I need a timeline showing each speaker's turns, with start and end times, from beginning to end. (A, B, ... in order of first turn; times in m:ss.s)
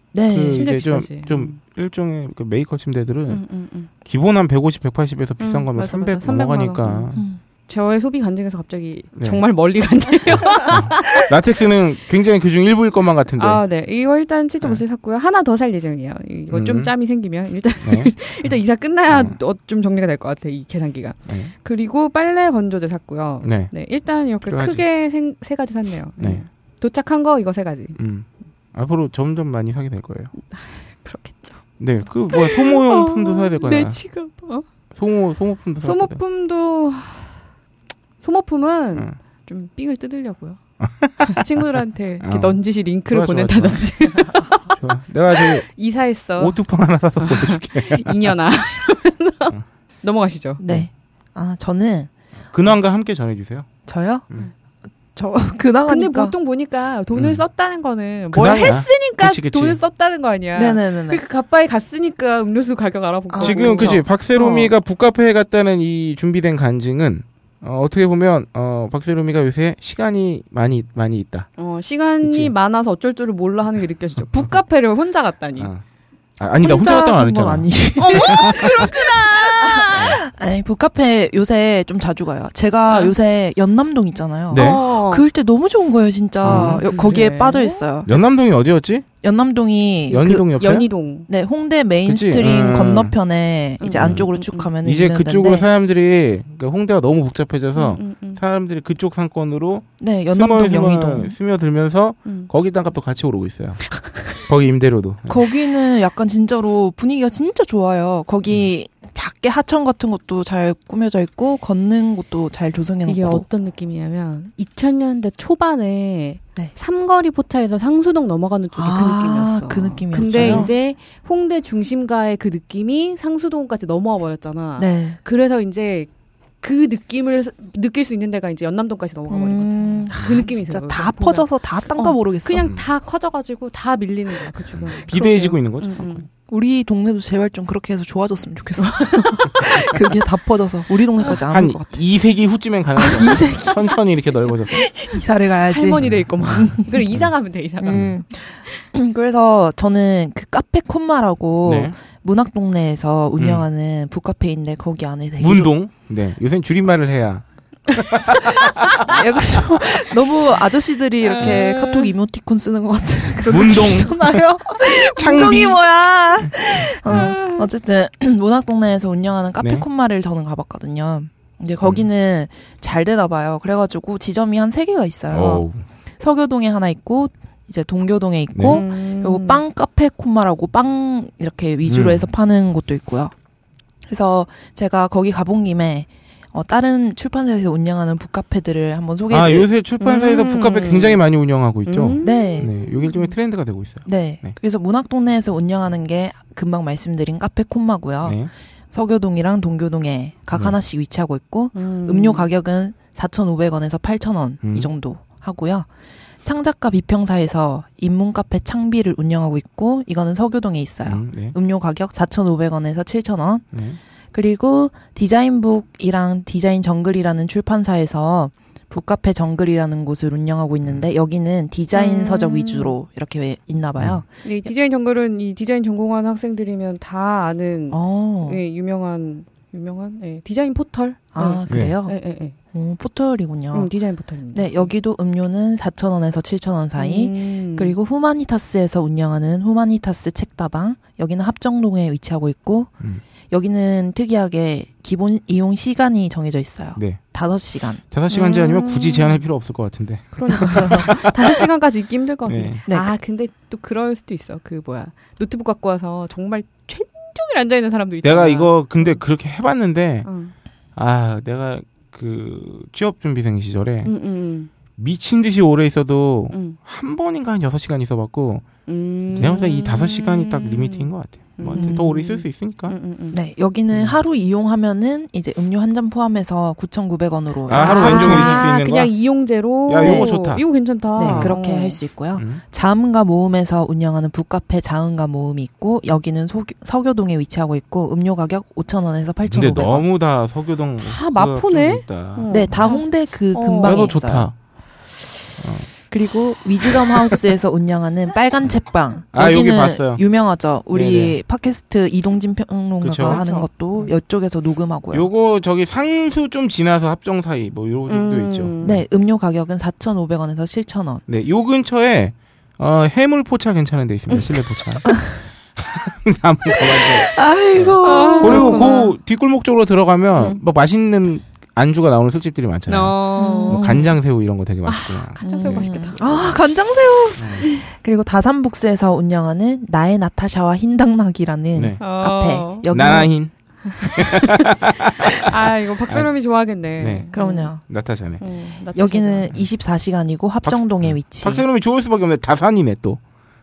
0:00.1-0:00.6 A
0:00.3-0:03.4 B
0:00.5-0:01.6 C
0:03.3-0:03.9 C
0:04.0-0:07.2 B
0:05.4-0:07.1 C
0:07.1-0:07.4 A
0:07.7-0:11.3 C
0:09.2-0:09.4 B
0:10.4-0:13.6 B
0:13.4-0:28.0 C
0:16.5-0:16.9 B
0:17.8-0:18.5 B
0:19.1-0:19.4 B
0:23.4-0:23.7 B
0:24.4-0:24.8 B
0:28.0-0:30.3 B
0:30.5-0:31.6 C
0:31.8-0:34.0 B
0:32.3-0:34.6 C
0:34.9-0:36.2 B
0:35.8-0:37.4 C
0:38.2-0:40.6 C
0:40.8-0:41.4 B
0:41.2-0:44.7 C
0:42.2-0:43.9 B
0:44.3-0:44.6 A
0:44.7-0:45.6 B
0:45.4-0:46.6 C
0:46.4-0:48.3 B
0:47.2-0:50.6 C
0:50.6-0:52.1 A
0:52.5-0:53.7 B
0:53.8-0:54.2 A
0:55.1-0:56.3 A
0:55.9-1:04.7 C
0:57.1-0:57.4 B
0:58.3-0:59.8 B
1:00.5-1:01.2 A
1:03.3-1:04.0 A
1:03.4-1:11.5 B
1:11.6-1:15.7 C
1:12.2-1:12.5 B
1:16.4-1:18.8 B
1:16.6-1:28.2 A
1:18.0-1:20.1 C
1:19.9-1:20.2 B
1:24.5-1:24.8 B
1:24.5-1:25.2 C
1:26.4-1:26.8 B
1:26.4-1:27.8 C
1:28.0-1:29.0 B
1:29.2-1:30.4 A
1:30.1-1:30.9 B
1:30.2-1:31.3 C
1:31.3-1:35.7 A
1:32.0-1:33.1 B
1:33.8-1:34.7 C
1:34.0-1:34.3 B
1:34.8-1:45.4 B
1:37.8-1:38.4 C
1:40.0-1:41.4 A
1:45.3-1:53.4 A
1:53.0-2:06.1 C
1:58.7-2:00.7 A
2:00.1-2:00.7 B
2:04.8-2:05.2 A
2:06.6-2:16.2 C
2:09.3-2:12.7 A
2:14.8-2:16.2 B
2:16.5-2:22.0 A
2:18.8-2:19.6 C
2:21.5-2:24.8 B
2:23.0-2:24.0 A
2:24.7-2:27.2 A
2:25.7-2:28.8 C
2:26.0-2:27.3 B
2:27.8-2:35.7 A
2:31.6-2:31.9 B
2:33.4-2:33.6 B
2:35.4-2:39.1 B
2:39.0-2:55.6 A
2:41.4-2:42.1 C
2:43.5-2:44.4 B
2:45.1-2:45.8 B
2:47.0-2:47.3 B
2:47.1-2:47.6 C
2:49.6-2:49.8 B
2:55.3-2:55.8 B
2:56.2-3:03.3 A
2:58.5-2:58.8 B
2:58.6-2:59.6 C
3:01.8-3:02.3 B
3:04.1-3:09.7 A
3:09.3-3:14.6 B
3:10.0-3:11.2 C
3:11.8-3:13.3 C
3:12.2-3:12.7 A
3:14.0-3:18.4 A
3:18.2-3:18.5 B
3:18.9-3:25.9 A
3:21.7-3:22.5 C
3:24.6-3:24.9 B
3:26.4-3:33.6 A
3:31.0-3:31.5 B
3:33.7-3:34.0 B
3:34.3-3:44.3 A
3:41.9-3:42.9 C
3:44.4-3:52.5 C
3:47.9-3:48.6 A
3:51.3-3:52.2 A
3:51.7-3:51.9 B
3:52.7-3:53.9 A
3:53.7-3:54.9 C
3:54.5-4:02.9 A
3:57.0-3:57.9 C
4:03.5-4:08.0 A
4:08.1-4:11.6 B
4:08.3-4:09.4 C
4:10.4-4:19.2 C
4:12.5-4:12.8 B
4:18.2-4:20.3 B
4:20.2-4:20.5 C
4:21.0-4:24.1 B
4:24.0-4:24.7 C
4:25.0-4:28.7 B
4:26.5-4:26.8 C
4:28.9-4:33.4 C
4:29.3-4:32.9 B
4:31.7-4:32.0 A
4:33.3-4:38.7 A
4:33.9-4:34.2 B
4:37.7-4:39.1 B
4:37.8-4:42.0 C
4:39.9-4:40.6 B
4:40.0-4:40.3 A
4:41.2-4:50.0 A
4:41.2-4:41.6 B
4:42.4-4:42.6 B
4:49.5-4:52.9 B
4:51.0-4:54.2 C
4:52.5-4:54.5 A
4:53.8-4:54.5 B
4:55.6-4:55.9 B
4:56.1-5:05.3 A
4:59.3-5:00.2 B
5:00.9-5:01.4 B
5:03.0-5:03.4 B
5:03.2-5:03.7 C
5:05.1-5:09.0 B
5:08.1-5:08.9 C
5:08.8-5:11.2 A
5:11.3-5:15.1 B
5:15.8-5:26.4 B
5:16.7-5:19.1 A
5:18.0-5:19.1 C
5:22.9-5:24.1 C
5:23.4-5:24.1 A
5:24.8-5:26.5 C
5:25.4-5:33.3 A
5:27.4-5:27.6 B
5:31.7-5:32.0 B
5:32.0-5:32.8 C
5:32.9-5:35.5 B
5:33.8-5:34.7 C
5:35.2-5:39.5 C
5:37.0-5:37.3 B
5:37.3-5:37.8 A
5:37.8-5:38.4 B
5:38.9-5:41.6 A
5:40.6-5:43.2 B